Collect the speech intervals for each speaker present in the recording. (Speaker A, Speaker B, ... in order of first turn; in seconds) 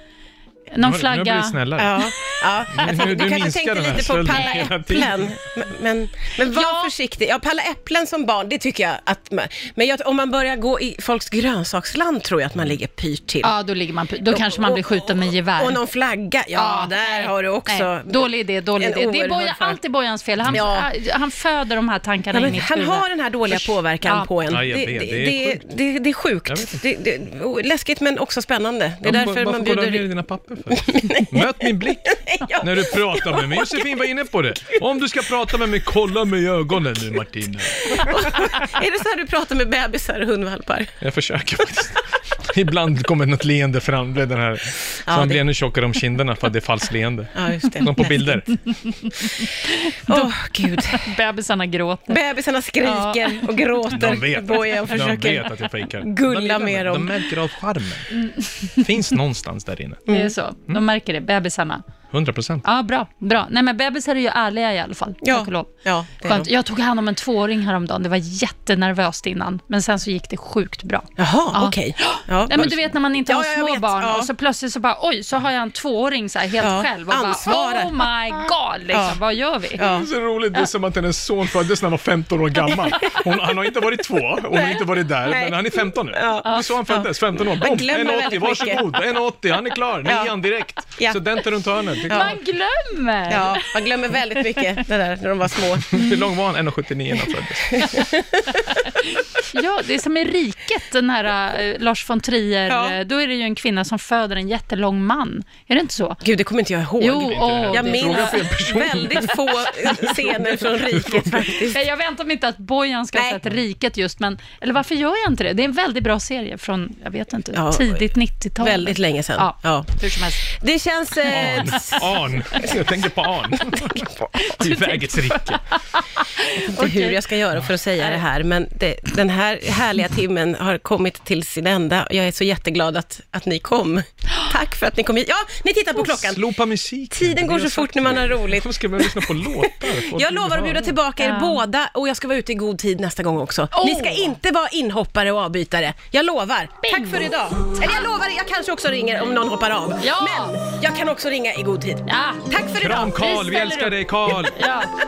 Speaker A: 0.7-1.6, 4.3-4.7, 6.4-6.9, 13.4-15.8, 16.5-24.3, 49.2-52.2, 52.8-53.4, 58.3-58.8, 60.1-61.8, 62.6-79.8, 92.1-93.7, 96.0-96.2, 99.0-106.2, 107.0-108.4, 111.7-120.4, 121.3-122.0, 124.4-127.2, 141.2-141.6, 143.7-144.3, 146.8-147.3, 150.0-150.6, 152.1-152.4, 153.0-154.9
Speaker B: 0.8-2.1, 2.7-5.3, 24.5-25.6, 26.5-26.8, 29.0-38.5, 41.0-48.7, 53.9-60.0, 62.1-62.6, 72.5-72.9, 79.8-92.4, 95.9-97.9, 107.2-111.4, 121.3-124.0, 124.6-125.6, 135.9-140.9, 152.8-154.6
Speaker C: 1.8-13.5, 14.3-19.8, 20.5-20.9, 22.3-30.1, 30.7-34.1, 37.9-40.9, 45.1-45.4, 47.4-48.4, 50.1-51.0, 52.1-57.2, 60.1-60.3, 65.2-66.5, 71.2-72.6, 73.2-74.3, 76.6-78.1, 78.9-79.2, 79.8-80.1, 82.8-83.2, 84.5-88.8, 90.0-90.3, 92.0-92.4, 93.3-96.0, 97.7-98.7, 102.7-103.0, 106.2-111.8, 113.1-113.4, 117.5-118.1, 118.6-122.9, 123.5-124.8, 126.5-136.4, 137.1-153.2